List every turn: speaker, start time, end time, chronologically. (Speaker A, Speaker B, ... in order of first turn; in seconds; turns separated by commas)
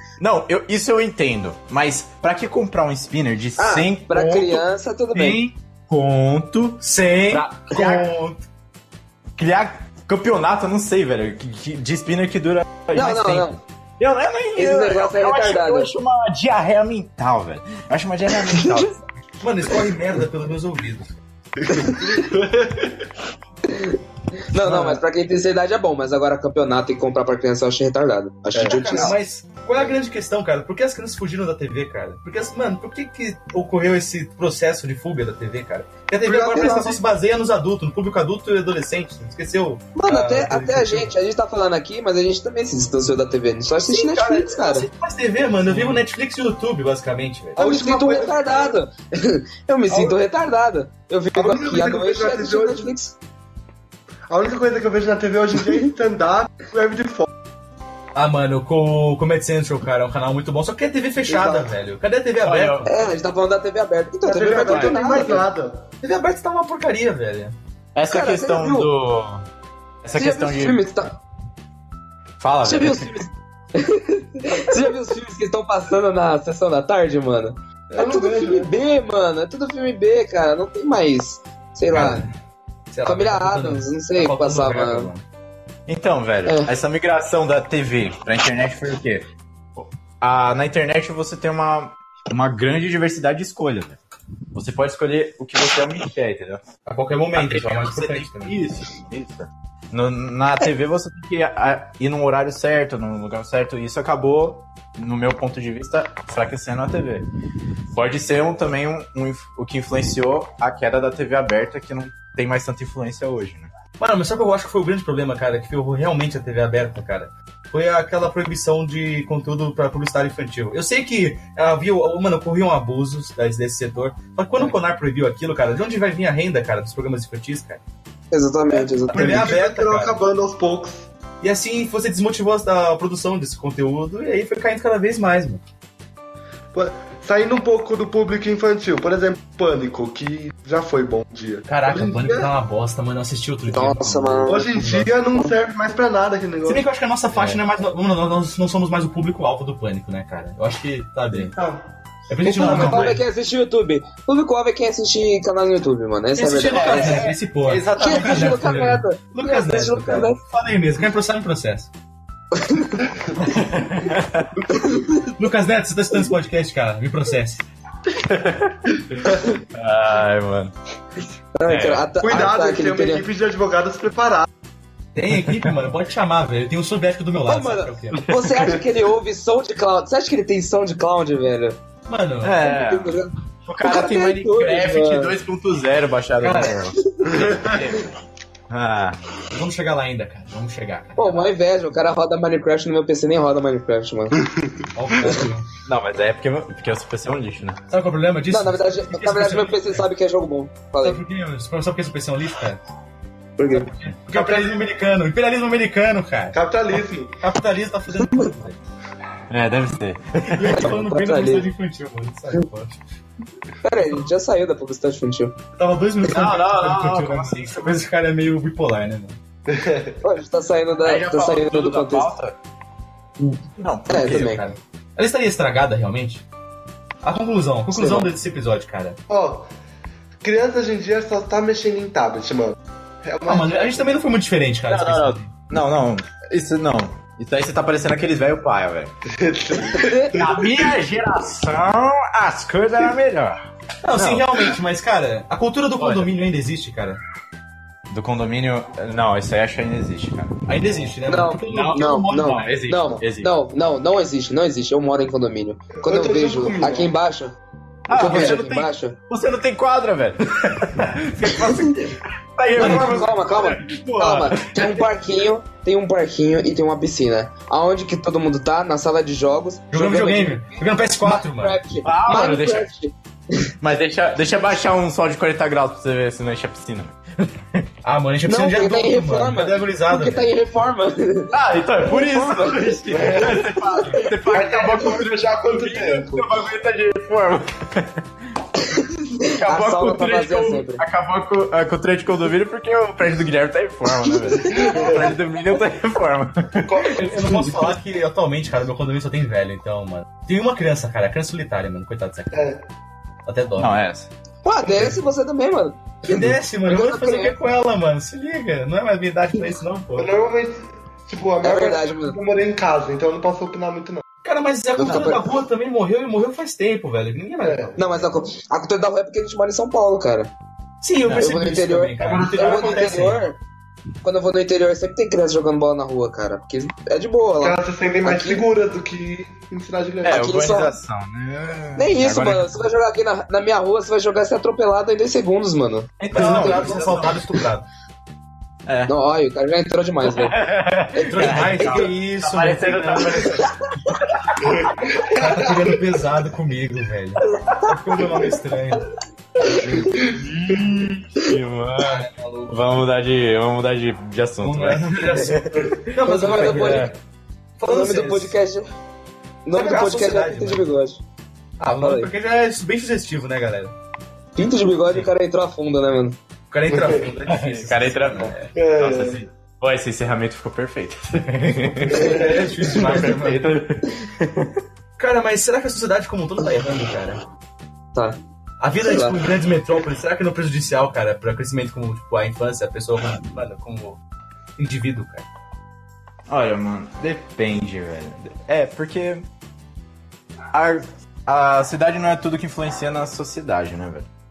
Speaker A: 0.2-4.7, Speaker B: 3.6-5.4, Speaker C: 5.2-5.5, Speaker A: 5.2-8.2, Speaker C: 6.8-8.4, Speaker A: 9.4-19.0, Speaker B: 12.9-13.6, Speaker B: 14.6-15.9, Speaker C: 19.4-21.1, Speaker D: 21.6-22.9, Speaker B: 23.7-24.0, Speaker B: 24.5-29.2, Speaker C: 24.6-25.0, Speaker C: 28.6-41.1, Speaker B: 36.3-37.0, Speaker B: 40.0-44.9, Speaker C: 43.9-47.6, Speaker D: 47.6-48.7, Speaker B: 47.6-53.2, Speaker D: 51.4-52.9, Speaker D: 54.3-57.3, Speaker C: 58.1-62.9, Speaker B: 61.3-61.7, Speaker A: 62.4-62.9, Speaker B: 62.9-65.5, Speaker D: 64.2-65.9, Speaker A: 64.7-65.0, Speaker C: 66.0-67.5, Speaker A: 68.0-69.5, Speaker B: 68.1-68.9, Speaker A: 70.0-70.8, Speaker B: 70.2-71.2, Speaker A: 72.4-73.2, Speaker B: 72.6-82.3, Speaker D: 77.9-78.8, Speaker C: 81.9-82.3, Speaker C: 82.9-85.2, Speaker B: 83.0-85.1, Speaker A: 85.9-94.0, Speaker B: 86.5-86.7, Speaker A: 94.5-96.6, Speaker C: 96.9-98.5, Speaker A: 97.3-107.3, Speaker A: 107.9-113.7, Speaker C: 114.0-127.8, Speaker B: 128.3-129.5, Speaker C: 128.8-130.2, Speaker D: 129.1-131.1, Speaker C: 131.4-135.6, Speaker D: 136.7-142.5, Speaker C: 141.7-145.2, Speaker B: 143.7-144.7, Speaker D: 144.5-146.8, Speaker C: 146.7-151.5, Speaker A: 147.3-147.6, Speaker D: 151.3-151.8, Speaker C: 152.3-153.2, Speaker B: 152.4-157.3, Speaker C: 156.3-161.9, Speaker A: 156.7-158.7, Speaker B: 158.0-160.4, Speaker B: 162.6-163.0, Speaker A: 163.4-164.6, Speaker B: 164.7-165.2, Speaker C: 165.4-167.6, Speaker A: 168.2-169.2, Speaker D: 169.2-169.5, Speaker A: 169.7-170.7, Speaker B: 171.6-173.2, Speaker A: 171.7-172.1, Speaker D: 172.2-174.5, Speaker C: 175.2-178.3, Speaker A: 175.5-175.7, Speaker B: 177.5-181.8, Speaker A: 178.2-178.5, Speaker C: 182.1-182.6, Speaker A: 182.4-188.1, Speaker B: 182.6-183.3, Speaker B: 183.8-185.4, Speaker C: 186.4-186.9, Speaker B: 187.0-187.7, Speaker A: 188.7-189.2, Speaker C: 189.5-191.5, Speaker B: 191.2-194.4, Speaker C: 195.0-195.7, Speaker A: 195.8-197.8, Speaker C: 197.9-200.1, Speaker B: 198.5-201.2, Speaker C: 201.0-202.8, Speaker B: 203.6-203.9, Speaker C: 203.8-206.6, Speaker D: 204.3-204.8, Speaker D: 206.5-207.4, Speaker C: 207.4-208.8, Speaker A: 209.5-211.0, Speaker C: 210.5-213.0, Speaker B: 210.7-211.7, Speaker B: 213.8-215.6, Speaker C: 215.8-219.4, Speaker A: 216.3-217.9, Speaker D: 219.7-220.2, Speaker B: 220.2-222.3, Speaker A: 221.0-222.6, Speaker B: 223.4-224.6, Speaker A: 223.8-224.6, Speaker C: 224.2-226.4, Speaker C: 227.2-229.2, Speaker B: 227.9-228.3, Speaker D: 229.3-229.7, Speaker D: 230.4-234.1, Speaker C: 233.5-235.5, Speaker A: 234.9-239.1, Speaker D: 239.3-240.9, Speaker B: 239.9-240.4, Speaker A: 240.3-243.6, Speaker C: 244.0-247.2, Speaker A: 244.1-244.6, Speaker A: 246.0-246.3, Speaker A: 248.1-250.6, Speaker C: 250.7-252.6, Speaker B: 251.3-257.6, Speaker A: 251.7-253.5, Speaker D: 256.0-257.1, Speaker A: 258.1-265.1, Speaker B: 258.1-259.2, Speaker C: 258.3-258.6, Speaker B: 262.8-273.7, Speaker C: 262.8-263.2, Speaker C: 269.9-271.8, Speaker A: 272.0-272.9, Speaker A: 273.8-277.9, Speaker C: 278.0-280.5, Speaker B: 278.5-283.0, Speaker A: 281.5-288.3, Speaker D: 283.1-283.8, Speaker B: 283.9-284.3, Speaker D: 284.4-286.5, Speaker B: 288.9-291.0, Speaker A: 289.4-297.1, Speaker D: 294.6-295.4, Speaker D: 296.8-297.8, Speaker C: 297.1-302.6, Speaker D: 302.5-302.8, Speaker C: 303.5-303.9, Speaker A: 303.8-304.3, Speaker B: 304.6-307.6, Speaker C: 306.2-310.3, Speaker D: 310.2-314.2, Speaker B: 311.6-312.4, Speaker C: 314.4-318.1, Speaker B: 315.0-315.4, Speaker A: 315.1-315.3, Speaker D: 317.6-318.0, Speaker B: 318.0-320.5, Speaker C: 321.0-323.5, Speaker A: 321.2-321.5, Speaker B: 321.4-323.6, Speaker A: 322.2-322.9, Speaker D: 322.3-323.0, Speaker B: 324.2-328.6, Speaker D: 327.6-330.4, Speaker A: 330.2-332.8, Speaker B: 330.2-331.0, Speaker B: 332.0-337.0, Speaker A: 336.2-337.6, Speaker C: 336.3-337.9, Speaker A: 338.9-339.1, Speaker B: 339.1-340.6, Speaker A: 340.2-344.9, Speaker B: 341.1-342.1, Speaker C: 341.3-343.5, Speaker D: 344.6-346.0, Speaker C: 345.3-349.1, Speaker A: 349.6-357.1, Speaker D: 350.0-350.8, Speaker C: 352.0-352.9, Speaker C: 354.6-357.1, Speaker B: 356.2-357.1, Speaker C: 357.8-358.5, Speaker B: 357.9-358.9, Speaker B: 359.6-361.2, Speaker C: 359.7-360.9, Speaker C: 361.8-363.9, Speaker B: 362.0-362.3, Speaker B: 364.6-366.4, Speaker C: 366.7-368.7, Speaker D: 366.9-367.2, Speaker A: 367.5-374.8, Speaker D: 368.7-369.4, Speaker D: 372.1-372.9, Speaker C: 372.1-373.7, Speaker C: 375.2-377.4, Speaker C: 378.8-384.2, Speaker B: 379.0-379.4, Speaker C: 384.8-385.4, Speaker A: 386.5-389.5, Speaker A: 390.7-394.3